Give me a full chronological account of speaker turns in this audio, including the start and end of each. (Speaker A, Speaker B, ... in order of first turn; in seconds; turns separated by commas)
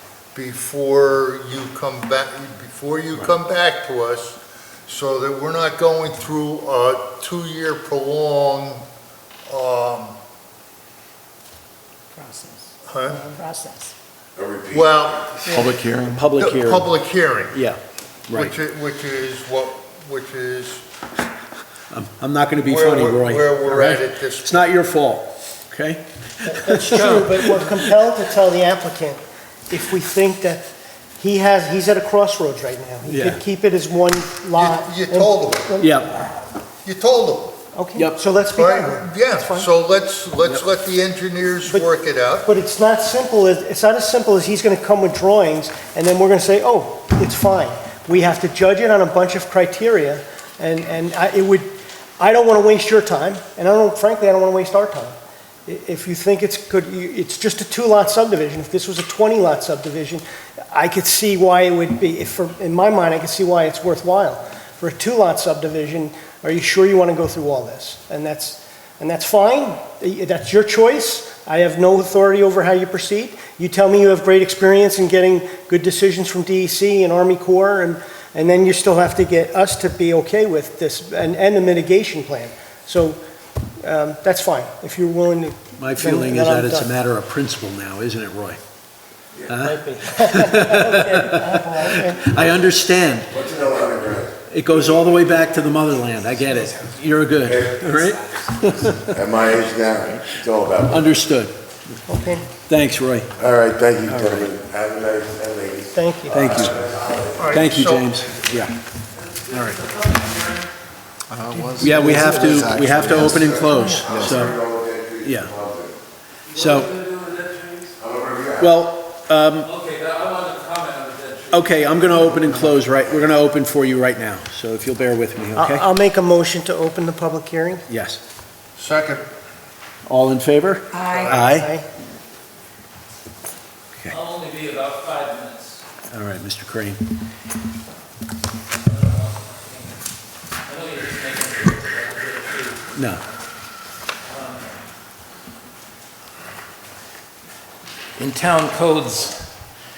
Speaker A: 0.3-8.8, Speaker A: 9.5-10.2, Speaker B: 12.2-13.9, Speaker A: 12.8-13.3, Speaker C: 14.3-15.0, Speaker A: 14.7-15.6, Speaker D: 15.4-16.2, Speaker E: 16.1-16.9, Speaker A: 16.3-17.7, Speaker E: 17.5-18.6, Speaker A: 18.3-20.8, Speaker E: 21.9-27.9, Speaker A: 22.6-24.7, Speaker F: 26.5-30.6, Speaker F: 31.2-36.4, Speaker E: 33.0-33.4, Speaker A: 34.5-35.8, Speaker E: 35.8-36.2, Speaker A: 36.8-37.6, Speaker F: 37.7-39.7, Speaker E: 38.0-38.2, Speaker A: 38.5-42.5, Speaker F: 42.4-55.1, Speaker F: 55.6-83.2, Speaker F: 83.8-86.9, Speaker E: 85.8-88.6, Speaker E: 89.5-93.4, Speaker F: 89.5-92.4, Speaker C: 93.3-95.2, Speaker E: 94.4-99.3, Speaker C: 97.4-97.9, Speaker C: 99.1-101.2, Speaker E: 100.3-102.0, Speaker F: 102.1-102.5, Speaker E: 102.5-103.3, Speaker C: 103.4-107.6, Speaker E: 104.0-104.5, Speaker F: 105.9-106.6, Speaker E: 106.3-106.8, Speaker A: 107.3-108.3, Speaker E: 107.5-108.8, Speaker G: 109.3-110.7, Speaker E: 109.5-109.8, Speaker D: 111.3-114.4, Speaker E: 111.8-114.6, Speaker C: 112.1-116.0, Speaker E: 115.2-115.5, Speaker G: 116.5-117.9, Speaker E: 116.5-117.0, Speaker C: 118.0-118.7, Speaker E: 118.5-119.7, Speaker G: 119.6-122.4, Speaker E: 121.5-125.9, Speaker F: 125.5-127.8, Speaker E: 127.9-128.2, Speaker A: 128.8-129.2, Speaker E: 130.1-131.7, Speaker B: 130.9-131.3, Speaker F: 131.1-131.9, Speaker G: 134.1-135.8, Speaker E: 136.1-137.0, Speaker G: 138.8-140.1, Speaker G: 140.6-143.4, Speaker E: 142.9-143.2, Speaker G: 144.2-144.8, Speaker G: 148.2-149.6